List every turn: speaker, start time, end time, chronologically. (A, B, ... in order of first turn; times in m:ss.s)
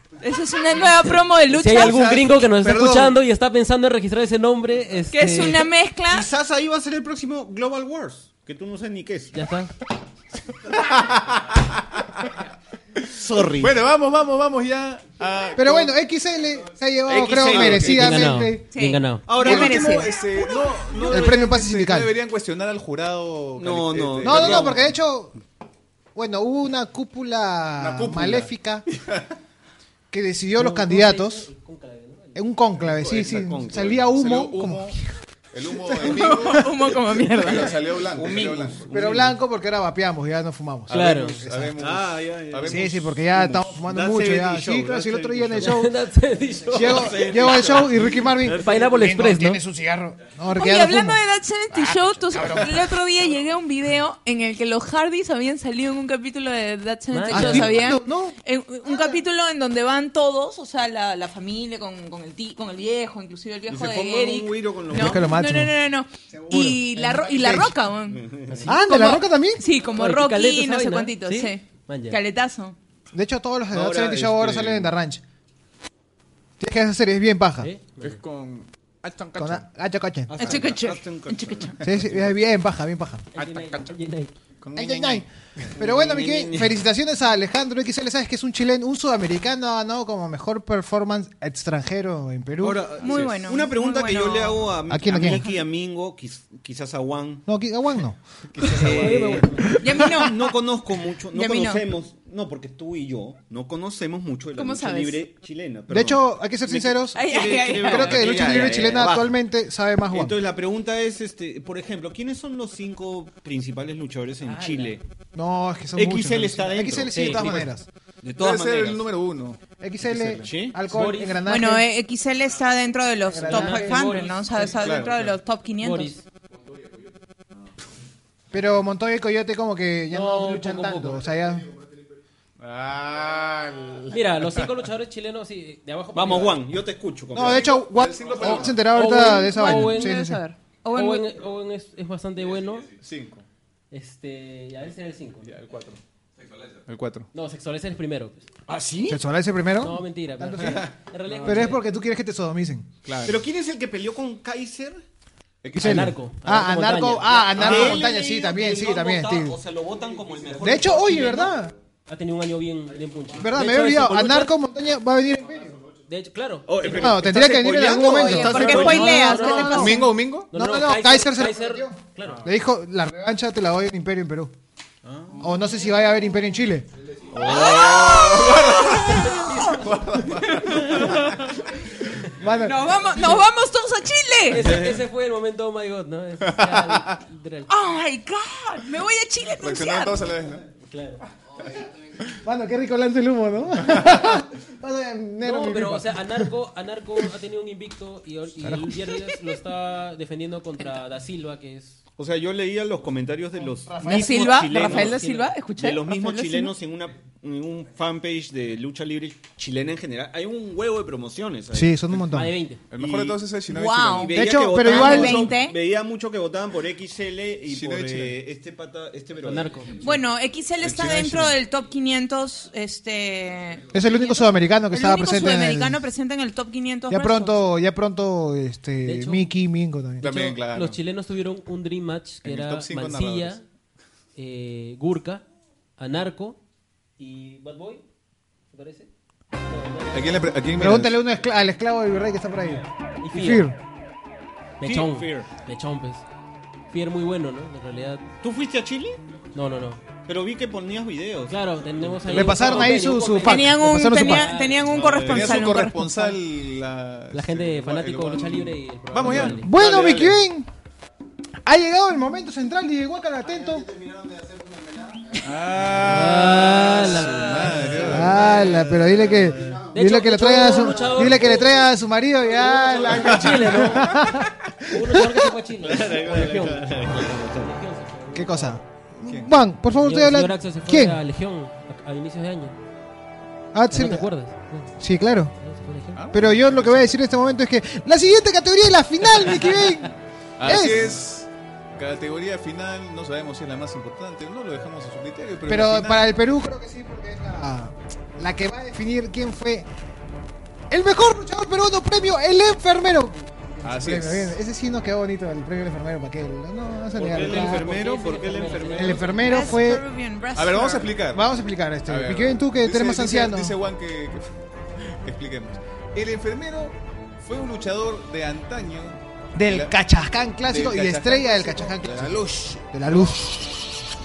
0:00.2-0:02.0 A
0:01.6-0:05.7 B
0:01.8-0:03.2 C
0:05.1-0:06.3 A
0:06.1-0:09.4 C
0:09.3-0:09.7 B
0:10.7-0:12.4 D
0:13.0-0:15.9 D
0:13.1-0:13.8 C
0:15.6-0:18.7 E
0:17.1-0:18.3 C
0:17.4-0:18.0 D
0:17.9-0:19.3 B
0:18.7-0:20.1 A
0:19.3-0:20.2 C
0:19.4-0:24.9 D
0:21.1-0:22.1 E
0:23.6-0:24.9 C
0:24.2-0:25.4 E
0:26.2-0:28.8 E
0:27.8-0:29.3 D
0:30.1-0:31.5 E
0:30.6-0:32.4 B
0:32.4-0:35.0 E
0:33.0-0:34.0 C
0:33.0-0:35.0 D
0:35.5-0:39.2 D
0:35.9-0:36.6 E
0:36.0-0:37.8 A
0:38.0-0:39.4 C
0:38.9-0:41.7 E
0:40.9-0:43.1 D
0:40.9-0:41.4 B
0:41.8-0:45.9 C
0:42.7-0:45.9 E
0:45.6-0:47.5 B
0:46.7-0:49.0 C
0:46.7-0:51.2 E
0:48.4-0:49.6 B
0:50.5-1:12.8 A
0:51.7-0:52.9 E
0:57.1-0:57.9 B
0:57.3-0:59.2 E
1:03.7-1:05.4 C
1:04.9-1:05.8 E
1:06.4-1:07.7 E
1:08.1-1:08.8 C
1:08.5-1:08.8 B
1:08.7-1:09.6 E
1:09.9-1:12.2 B
1:13.1-1:15.2 E
1:13.7-1:15.0 C
1:16.6-1:17.7 E
1:17.6-1:18.2 B
1:18.0-1:19.6 D
1:19.4-1:20.6 E
1:20.3-1:22.4 C
1:20.4-1:21.8 A
1:21.8-1:23.3 E
1:23.3-1:24.3 B
1:23.4-1:23.9 D
1:24.6-1:25.2 D
1:24.8-1:32.9 E
1:25.8-1:26.8 C
1:32.6-1:37.5 C
1:33.0-1:34.7 A
1:33.0-1:33.3 D
1:34.9-1:35.5 E
1:37.5-1:40.1 E
1:38.6-1:39.1 D
1:38.7-1:49.4 C
1:38.8-1:39.8 B
1:39.8-1:40.4 A
1:41.3-1:41.8 A
1:44.6-1:45.2 A
1:45.9-1:50.4 E
1:47.1-1:48.5 A
1:50.1-1:55.0 C
1:54.4-1:55.0 B
1:55.4-1:57.9 E
1:56.0-1:57.7 C
1:57.1-1:57.6 B
1:58.2-1:59.0 C
1:58.4-1:59.6 D
1:59.8-2:01.9 E
2:00.4-2:00.8 C
2:00.9-2:01.5 B
2:01.5-2:06.1 A
2:03.3-2:04.1 E
2:03.4-2:05.1 B
2:04.8-2:05.3 D
2:05.8-2:06.2 B
2:08.5-2:11.7 E
2:10.1-2:11.2 B
2:12.6-2:14.7 D
2:14.1-2:16.6 B
2:16.1-2:17.8 C
2:17.3-2:20.4 E
2:17.4-2:18.9 D
2:18.7-2:20.2 B
2:19.4-2:21.3 A
2:20.9-2:22.9 B
2:23.0-2:23.4 D
2:23.9-2:25.5 B
2:25.4-2:26.0 D
2:26.9-2:27.3 D
2:27.3-2:28.5 B
2:28.7-2:29.2 C
2:29.1-2:32.9 E
2:29.8-2:31.9 B
2:30.6-2:31.6 D
2:33.0-2:33.4 D
2:33.2-2:35.0 C
2:35.6-2:36.1 D
2:35.8-2:39.6 E
2:35.8-2:38.0 B
2:37.5-2:41.6 C
2:40.6-2:41.8 E
2:41.0-2:41.4 B
2:42.1-2:44.5 B
2:43.4-2:45.8 E
2:46.1-2:47.2 B
2:46.7-2:49.3 C
2:46.8-2:54.5 E
2:47.9-2:50.1 A
2:48.7-2:52.5 B
2:49.8-2:50.5 D
2:55.0-2:55.6 C
2:55.4-2:56.9 E
2:57.3-3:01.5 D
2:57.4-2:59.8 A
2:59.2-2:59.8 B
3:00.5-3:00.9 A
3:00.9-3:01.3 B
3:02.4-3:03.4 E
3:02.6-3:04.7 A
3:04.5-3:07.7 B
3:04.6-3:05.0 C
3:06.6-3:07.0 D
3:07.7-3:10.2 A
3:09.6-3:10.7 D
3:10.8-3:11.2 B
3:12.4-3:16.5 E
3:15.4-3:22.0 B
3:18.6-3:19.0 E
3:22.2-3:25.2 C
3:23.9-3:24.6 E
3:24.0-3:26.7 A
3:24.7-3:25.5 B
3:25.8-3:32.2 C
3:31.7-3:32.6 E
3:32.3-3:32.8 B
3:32.9-3:34.4 D
3:32.9-3:33.4 C
3:33.7-3:35.8 A
3:34.0-3:39.9 C
3:34.3-3:35.5 E
3:37.7-3:38.4 D
3:39.4-3:39.9 B
3:40.0-3:47.6 A
3:40.8-3:41.5 D
3:43.9-3:46.0 E
3:47.1-3:50.6 E
3:49.0-3:49.5 B
3:50.2-3:51.0 D
3:50.6-3:53.6 B
3:52.4-3:53.6 D
3:54.4-3:55.4 B
3:56.0-3:56.6 B
3:57.2-3:58.0 B
3:58.7-3:59.1 B
3:59.7-4:00.6 B
4:00.1-4:01.2 D
4:00.7-4:03.8 E
4:03.2-4:03.7 B
4:04.8-4:06.2 B
4:04.8-4:05.5 C
4:06.9-4:08.2 B
4:08.4-4:09.2 C
4:09.5-4:10.0 B
4:10.2-4:12.8 C
4:11.5-4:15.1 B
4:12.3-4:14.5 E
4:13.4-4:16.4 A
4:14.9-4:15.6 C
4:15.3-4:19.6 D
4:17.3-4:20.2 B
4:19.3-4:20.7 E
4:19.8-4:20.4 C
4:21.6-4:23.9 E
4:25.4-4:28.5 D
4:26.0-4:29.2 B
4:28.0-4:35.5 E
4:28.7-4:29.8 C
4:29.9-4:31.9 B
4:32.6-4:33.1 C
4:32.9-4:34.4 B
4:33.1-4:33.5 D
4:34.9-4:38.8 B
4:35.8-4:37.7 C
4:38.3-4:41.2 E
4:39.3-4:39.6 D
4:39.9-4:42.8 B
4:43.7-4:44.3 E
4:43.9-4:44.9 B
4:45.0-4:45.5 E
4:45.6-4:46.3 B
4:46.1-4:47.2 D
4:46.3-4:50.1 E
4:50.6-4:56.3 D
4:50.6-4:51.2 E
4:55.7-4:59.9 E
5:00.9-5:08.0 E
5:03.8-5:04.6 D
5:07.1-5:09.5 C
5:07.3-5:10.0 B
5:08.9-5:10.0 E
5:09.4-5:11.1 A
5:10.6-5:11.5 D
5:11.3-5:13.8 E
5:12.1-5:14.5 D
5:15.0-5:20.0 D
5:19.6-5:23.9 E
5:20.7-5:22.8 D